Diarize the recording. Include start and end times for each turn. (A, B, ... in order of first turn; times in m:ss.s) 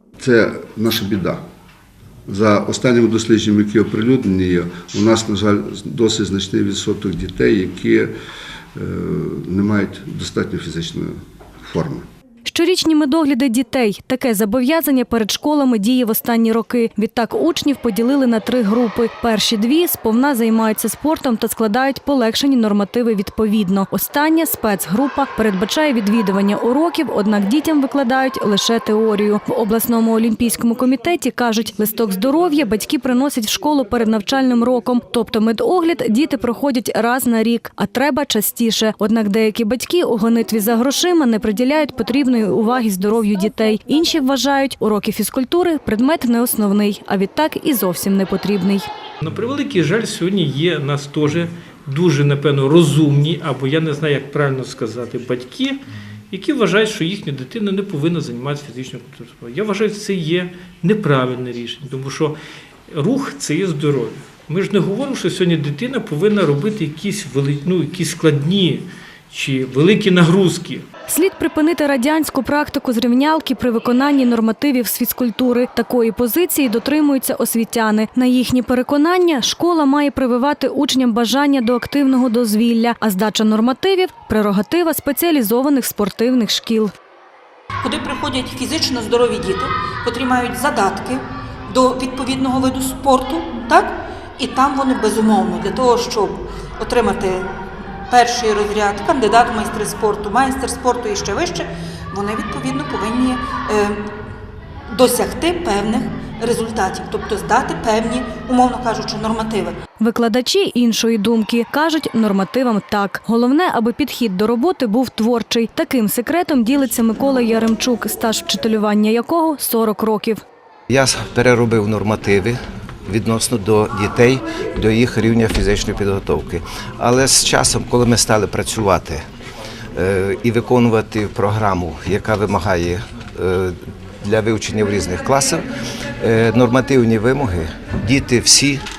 0:00.2-0:01.4 A
0:02.3-0:08.1 A
0:08.7-0:12.0 A
0:12.5-0:48.9 B
0:49.2-0:55.8 C
0:56.3-1:02.4 C
1:02.9-1:10.8 C
1:11.1-1:26.9 B
1:27.8-1:44.1 D
1:44.9-1:49.8 D
1:50.0-2:00.4 B
2:00.9-2:09.2 E
2:09.9-2:15.6 E
2:16.2-2:18.8 E